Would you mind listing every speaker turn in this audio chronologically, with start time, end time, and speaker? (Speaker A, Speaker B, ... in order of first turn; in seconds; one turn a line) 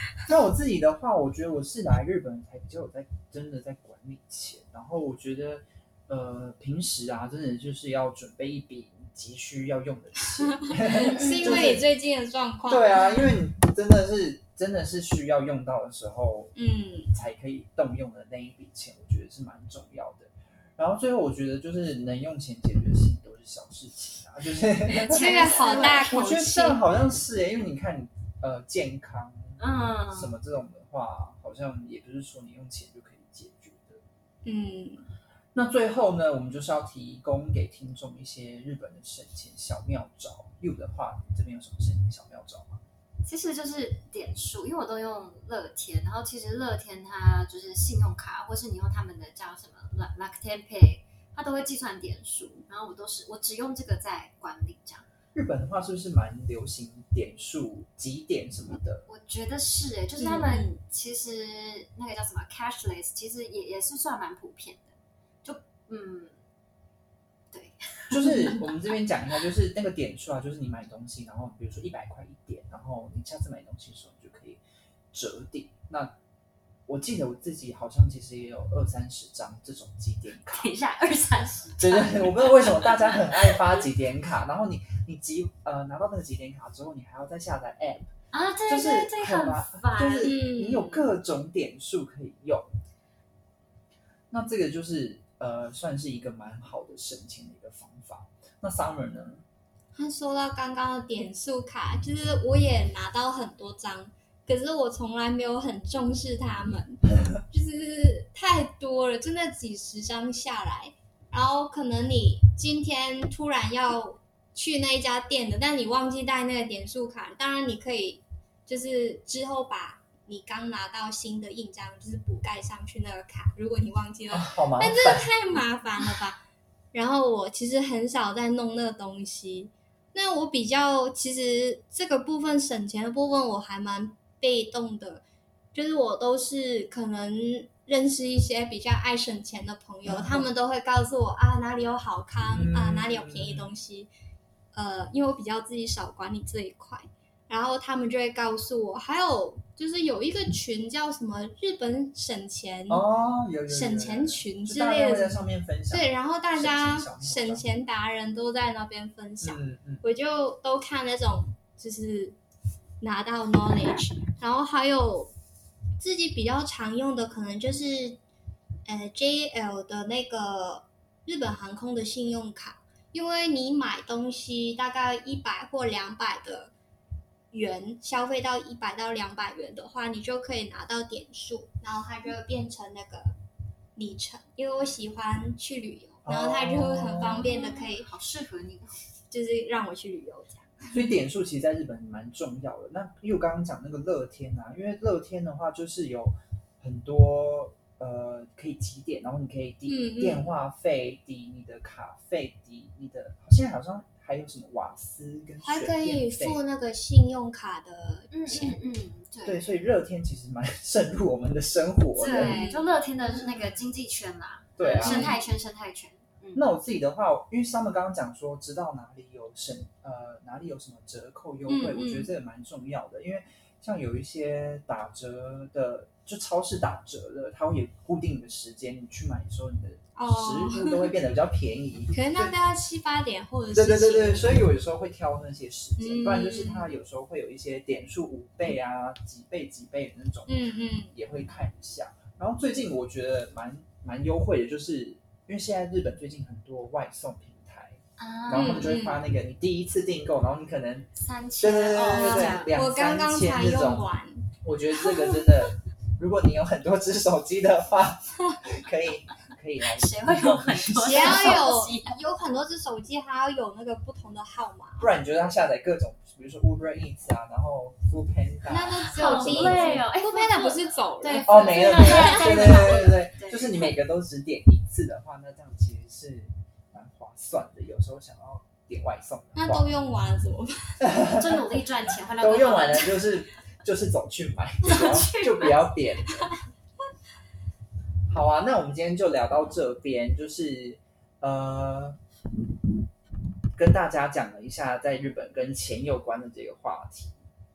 Speaker A: 0.2-11.8
Speaker B: 10.6-13.3
Speaker C: 10.9-11.8
Speaker A: 12.7-16.5
Speaker B: 16.5-17.1
Speaker A: 17.1-29.6
Speaker C: 24.9-26.2
Speaker B: 25.1-26.8
Speaker C: 29.6-30.3
Speaker A: 30.1-34.0
Speaker B: 34.4-35.0
Speaker A: 35.5-42.8
Speaker C: 43.2-55.0
Speaker A: 55.3-59.0
Speaker C: 59.1-66.4
Speaker B: 60.2-60.8
Speaker C: 67.5-69.0
Speaker A: 68.1-74.6
Speaker B: 68.2-68.5
Speaker A: 75.1-76.1
Speaker A: 76.9-80.7
Speaker C: 80.4-83.8
Speaker A: 81.8-88.1
Speaker C: 88.3-90.4
Speaker A: 88.7-92.7
Speaker B: 90.2-91.0
Speaker A: 94.3-99.4
Speaker B: 99.9-126.4
Speaker A: 124.3-125.3
Speaker B: 126.9-135.2
Speaker B: 135.7-144.1
Speaker A: 140.0-140.5
Speaker A: 142.5-143.7
Speaker B: 144.7-153.1
Speaker A: 152.9-157.7
Speaker B: 153.7-162.4
Speaker A: 159.4-160.0
Speaker B: 163.0-165.3
Speaker B: 166.0-168.2
Speaker B: 168.8-176.7
Speaker B: 177.5-183.3
Speaker B: 183.9-188.1
Speaker A: 186.2-187.5
Speaker C: 187.2-188.9
Speaker B: 189.3-191.0
Speaker A: 190.9-206.6
Speaker B: 199.9-200.5
Speaker B: 205.6-208.8
Speaker C: 208.3-209.8
Speaker A: 209.4-212.6
Speaker C: 212.2-216.6
Speaker B: 212.3-212.8
Speaker A: 214.8-215.4
Speaker B: 215.0-215.4
Speaker A: 216.5-232.5
Speaker B: 221.7-222.3
Speaker B: 230.2-231.1
Speaker B: 232.1-234.6
Speaker A: 233.7-251.1
Speaker B: 236.0-236.9
Speaker B: 240.5-241.1
Speaker C: 248.2-248.9
Speaker B: 248.5-249.2
Speaker C: 251.1-252.8
Speaker A: 251.6-254.1
Speaker B: 252.1-254.5
Speaker A: 254.6-261.6
Speaker B: 255.0-255.4
Speaker C: 259.8-262.2
Speaker B: 261.1-265.1
Speaker A: 265.0-270.1
Speaker B: 268.7-273.1
Speaker C: 269.0-273.9
Speaker A: 271.4-279.9
Speaker B: 279.6-281.1
Speaker A: 281.0-281.8
Speaker C: 281.4-283.3
Speaker A: 282.3-286.5
Speaker C: 284.8-285.9
Speaker A: 288.3-292.2
Speaker A: 293.7-297.3